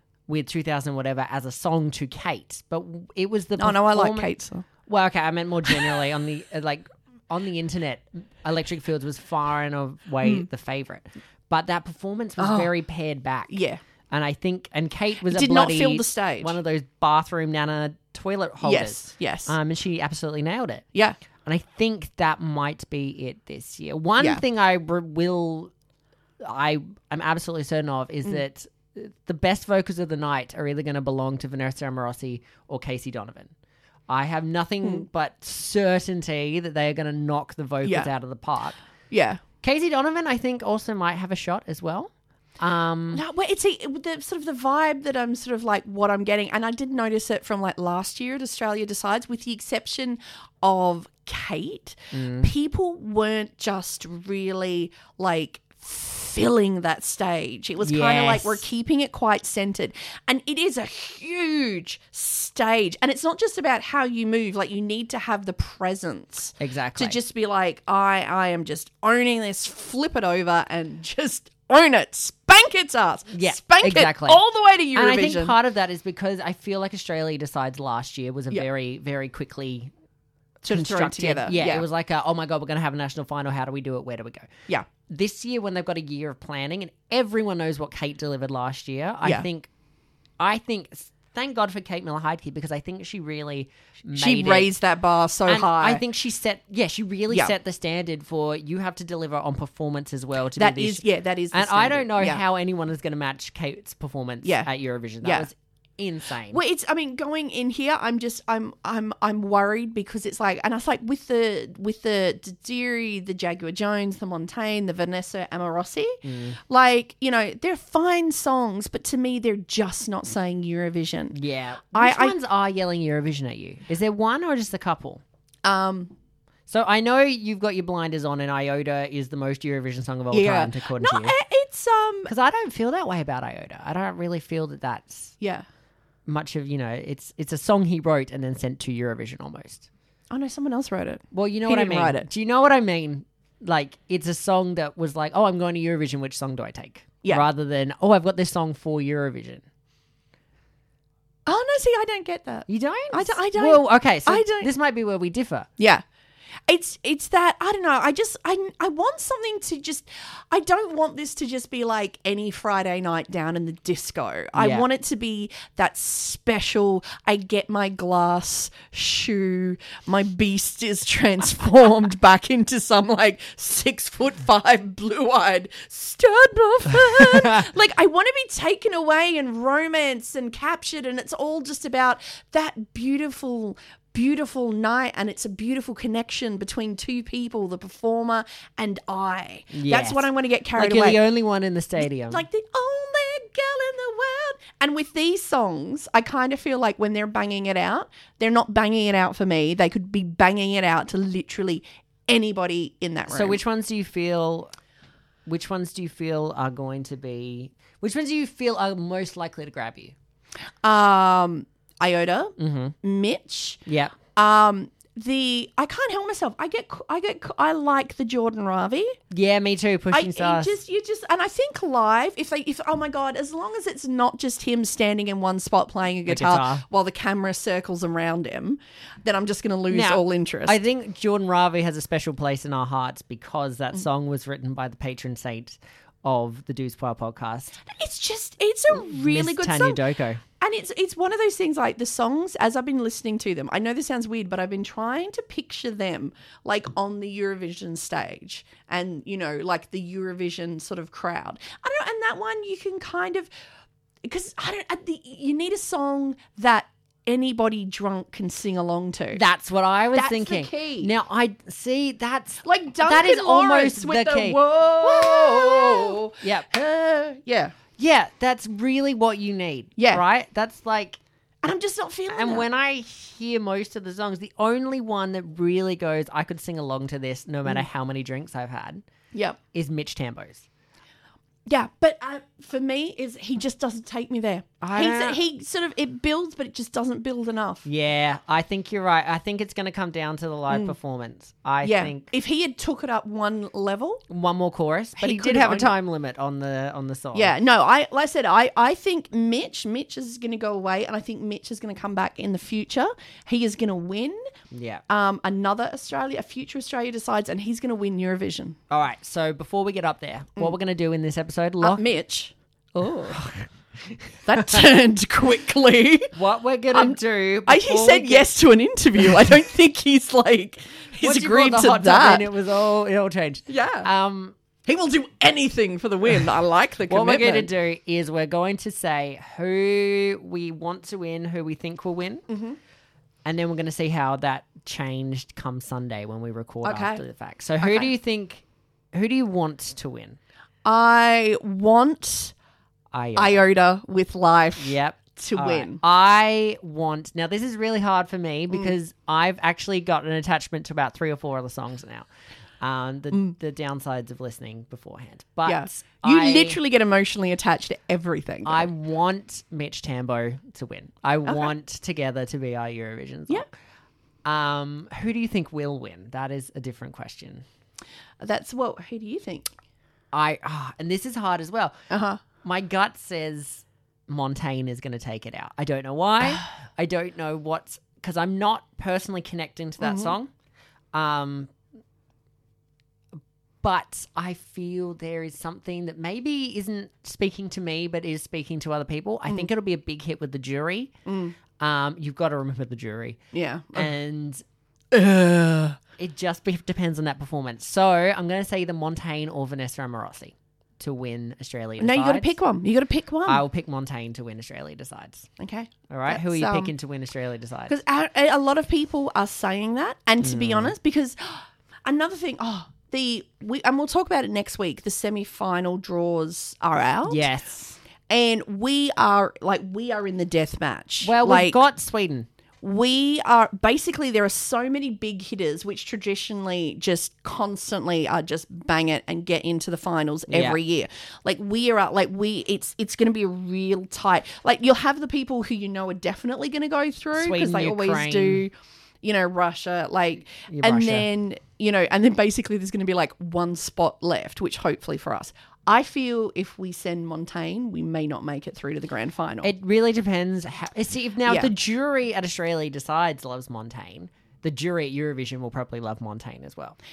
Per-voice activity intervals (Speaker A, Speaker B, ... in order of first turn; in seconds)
Speaker A: 0.3-4.3, 4.8-13.5, 14.1-20.9, 21.4-25.7, 26.4-33.5, 34.1-38.8, 39.6-43.2, 52.1-52.5, 57.8-58.6, 66.6-67.2, 73.3-74.4, 74.9-79.9, 80.7-84.5, 85.1-89.7, 90.4-94.7, 95.5-106.6, 116.2-116.6, 121.3-125.2, 126.7-131.3, 132.3-135.4, 136.3-139.9, 141.3-149.6, 152.7-155.7, 164.6-164.9, 176.9-177.7, 189.7-192.4, 203.3-204.7, 205.5-210.2, 212.6-213.0, 213.9-214.2, 219.3-220.7, 226.3-226.8, 229.9-237.8, 238.9-240.4, 259.3-266.7, 268.0-271.2, 272.3-279.0, 279.7-280.6, 284.8-285.4, 287.9-292.3, 294.3-297.6, 304.7-305.0, 308.9-312.0, 313.3-314.9, 316.4-318.5, 321.2-324.6, 327.1-332.5, 333.4-340.4, 343.1-343.6, 344.8-352.3, 352.8-356.8, 358.6-363.7, 364.4-367.6, 370.3-371.9, 372.6-380.5, 381.1-381.7, 383.8-391.1, 391.8-393.4, 393.9-394.6, 396.2-402.5, 403.5-405.5, 406.1-407.9, 410.4-410.9, 417.3-418.0, 421.2-422.5, 430.5-430.8, 437.4-438.7, 440.7-441.3, 449.6-457.0
Speaker B: 3.6-4.7, 12.4-12.7, 13.5-13.8, 15.3-16.6, 18.6-19.6, 37.8-38.1, 39.1-39.4, 43.1-75.6, 80.6-81.9, 94.2-96.0, 100.6-102.4, 104.4-104.7, 105.2-105.5, 106.5-121.4, 121.9-122.4, 125.7-126.1, 130.3-132.3, 135.4-135.7, 140.3-142.3, 151.5-154.7, 155.8-156.0, 156.7-191.2, 192.2-203.6, 210.8-213.8, 214.3-219.2, 220.1-230.8, 237.9-240.0, 240.6-253.5, 254.2-259.4, 260.1-261.1, 262.6-267.8, 270.0-270.2, 271.6-272.7, 279.3-279.6, 281.7-287.9, 290.7-291.0, 291.8-294.2, 295.2-295.9, 297.3-304.4, 305.1-308.8, 311.8-313.4, 314.5-316.3, 316.9-322.5, 323.7-324.1, 324.9-327.7, 332.5-332.8, 336.8-337.2, 337.8-338.1, 340.9-342.5, 343.4-346.0, 355.7-358.9, 368.4-369.7, 372.1-372.4, 380.0-380.3, 391.3-391.6, 393.5-394.1, 395.1-396.0, 402.0-403.6, 405.6-406.9, 407.9-417.4, 418.3-421.8, 422.8-449.7, 451.5-451.7